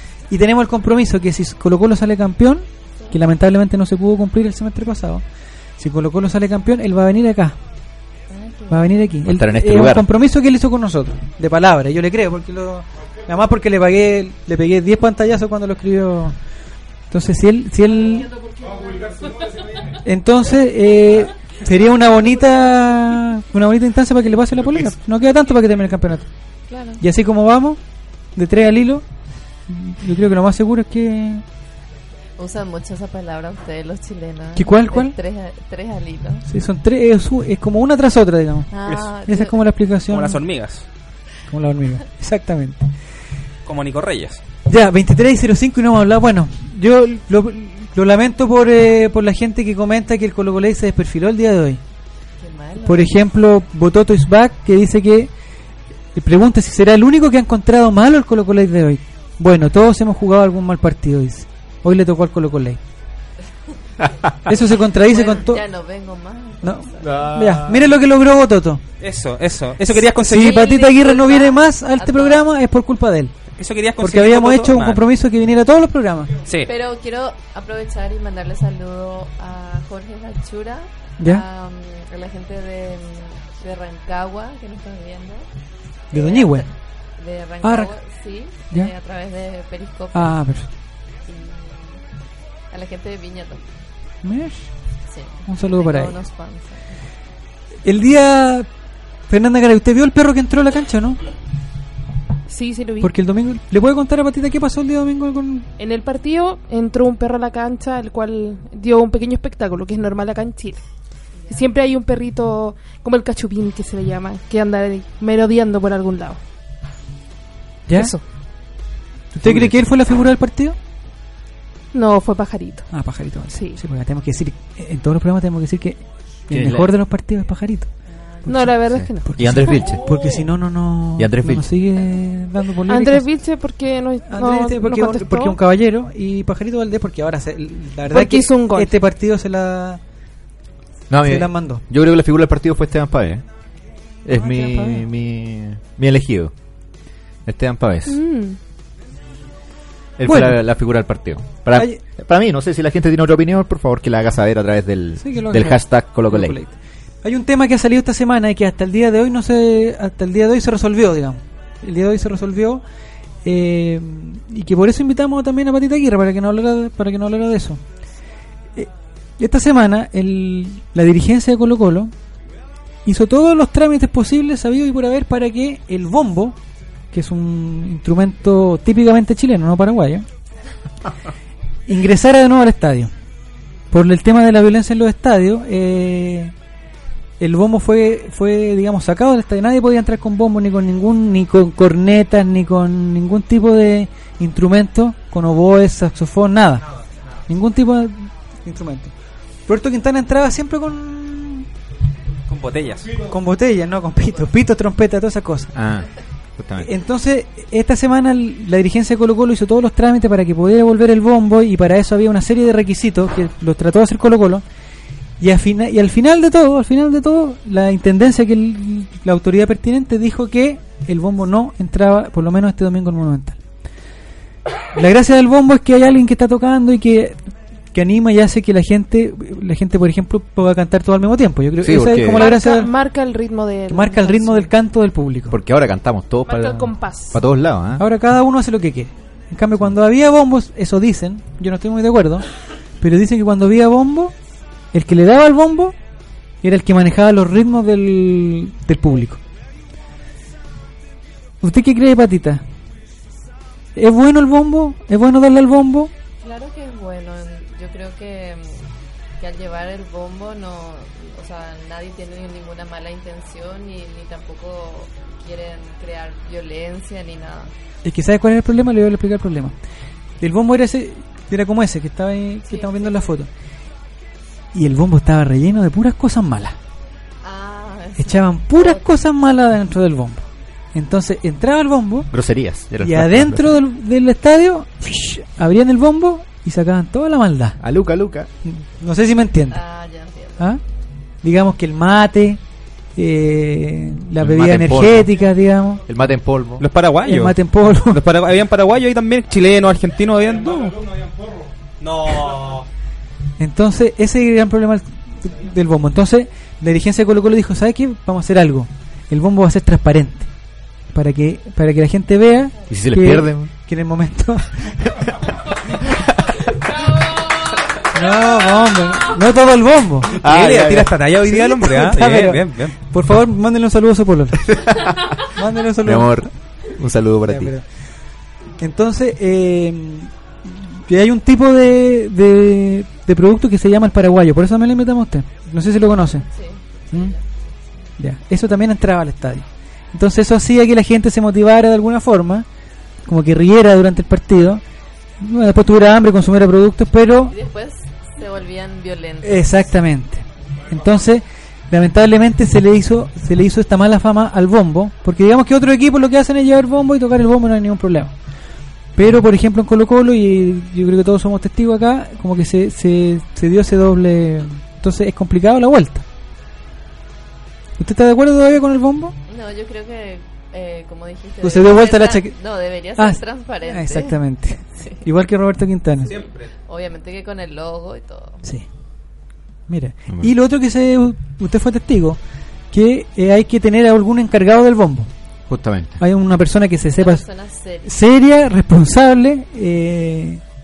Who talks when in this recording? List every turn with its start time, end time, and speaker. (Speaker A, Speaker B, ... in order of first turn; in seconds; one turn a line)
Speaker A: 0.3-5.2
Speaker A: 5.8-7.6
Speaker B: 8.3-8.9
Speaker A: 8.7-16.4
Speaker C: 9.2-10.1
Speaker A: 17.1-18.3
Speaker A: 20.0-26.3
Speaker B: 26.7-27.0
Speaker A: 27.0-27.8
Speaker A: 28.4-29.0
Speaker A: 29.7-31.4
Speaker B: 32.4-36.4
Speaker A: 34.5-35.1
Speaker A: 36.4-40.4
Speaker B: 38.7-39.5
Speaker D: 40.1-40.9
Speaker A: 41.5-42.8
Speaker D: 43.6-44.4
Speaker A: 44.7-51.8
Speaker B: 52.4-53.1
Speaker A: 52.8-55.3
Speaker A: 56.1-62.8
Speaker A: 64.5-65.6
Speaker B: 64.5-67.3
Speaker A: 66.6-68.8
Speaker C: 67.0-67.9
Speaker D: 69.0-70.5
Speaker A: 70.2-73.3
Speaker B: 70.3-72.4
Speaker D: 73.5-75.0
Speaker A: 74.0-76.3
Speaker D: 76.5-76.7
Speaker B: 76.6-85.5
Speaker A: 81.2-81.4
Speaker B: 86.1-90.3
Speaker A: 86.1-86.6
Speaker A: 87.6-87.9
Speaker A: 90.1-90.7
Speaker B: 91.2-92.0
Speaker B: 92.7-93.6
Speaker A: 94.2-94.7
Speaker B: 95.1-97.0
Speaker A: 95.5-96.1
Speaker A: 97.8-98.7
Speaker A: 99.3-101.2
Speaker E: 102.5-103.1
Speaker A: 103.0-105.7
Speaker E: 105.8-110.8
Speaker B: 111.3-111.7
Speaker E: 111.5-116.4
Speaker A: 117.9-118.1
Speaker E: 117.9-118.2
Speaker A: 119.3-120.8
Speaker C: 119.4-119.8
Speaker E: 121.9-122.9
Speaker A: 122.9-127.9
Speaker E: 123.5-123.8
Speaker C: 126.5-126.9
Speaker B: 128.1-128.5
Speaker E: 128.4-129.8
Speaker A: 128.5-128.7
Speaker C: 128.8-130.0
Speaker A: 129.2-133.3
Speaker C: 131.2-131.7
Speaker E: 132.9-135.6
Speaker A: 134.3-140.0
Speaker E: 138.1-138.9
Speaker C: 141.1-143.4
Speaker A: 141.2-141.8
Speaker C: 144.2-146.5
Speaker A: 144.3-145.1
Speaker C: 147.4-148.2
Speaker E: 148.1-148.6
Speaker C: 150.2-156.6
Speaker A: 150.2-150.6
Speaker A: 151.7-152.0
Speaker A: 155.2-162.8
Speaker A: 163.4-167.8
Speaker A: 168.8-172.1
Speaker A: 173.0-176.6
Speaker A: 177.1-180.3
Speaker A: 181.9-183.1
Speaker A: 183.9-186.5
Speaker A: 187.4-196.8
Speaker A: 197.5-199.1
Speaker A: 199.7-201.7
Speaker D: 202.5-203.2
Speaker A: 203.2-205.7
Speaker C: 205.7-206.9
Speaker A: 206.8-214.6
Speaker A: 215.4-223.6
Speaker A: 224.9-227.4
Speaker A: 227.9-232.9
Speaker C: 231.8-232.5
Speaker E: 232.4-234.7
Speaker A: 233.9-235.6
Speaker C: 235.5-238.0
Speaker E: 236.5-237.4
Speaker A: 238.0-242.4
Speaker A: 243.0-244.3
Speaker A: 244.9-245.9
Speaker A: 246.6-249.4
Speaker A: 251.6-252.6
Speaker A: 253.9-256.1
Speaker B: 256.4-267.7
Speaker A: 268.0-269.8
Speaker A: 270.4-273.5
Speaker B: 272.6-273.3
Speaker A: 274.7-276.8
Speaker B: 277.4-279.1
Speaker A: 278.2-282.3
Speaker C: 282.3-283.8
Speaker A: 283.0-287.8
Speaker C: 287.8-288.5
Speaker A: 288.6-289.8
Speaker B: 289.7-290.8
Speaker A: 291.4-292.6
Speaker A: 293.1-296.0
Speaker C: 294.4-295.4
Speaker C: 296.1-296.9
Speaker D: 296.8-301.2
Speaker A: 297.2-298.2
Speaker D: 302.0-302.9
Speaker A: 303.6-310.5
Speaker A: 311.1-315.0
Speaker C: 312.9-313.7
Speaker A: 318.1-320.3
Speaker C: 320.3-321.3
Speaker D: 320.4-322.9
Speaker A: 321.4-324.8
Speaker C: 324.7-325.2
Speaker A: 325.4-326.5
Speaker C: 326.0-327.7
Speaker A: 327.5-327.8
Speaker A: 328.8-336.4
Speaker B: 336.4-338.1
Speaker A: 338.2-342.6
Speaker A: 343.2-344.8
Speaker A: 345.4-347.5
Speaker B: 347.5-349.9
Speaker A: 349.4-358.3
Speaker A: 359.1-366.2
Speaker A: 368.0-369.3
Speaker B: 369.5-374.4
Speaker A: 371.6-372.6
Speaker A: 373.1-376.4
Speaker B: 374.9-375.2
Speaker B: 376.3-378.6
Speaker A: 379.9-382.4
Speaker A: 382.9-385.3
Speaker C: 385.7-386.2
Speaker A: 386.2-387.4
Speaker B: 387.2-388.1
Speaker A: 388.0-390.6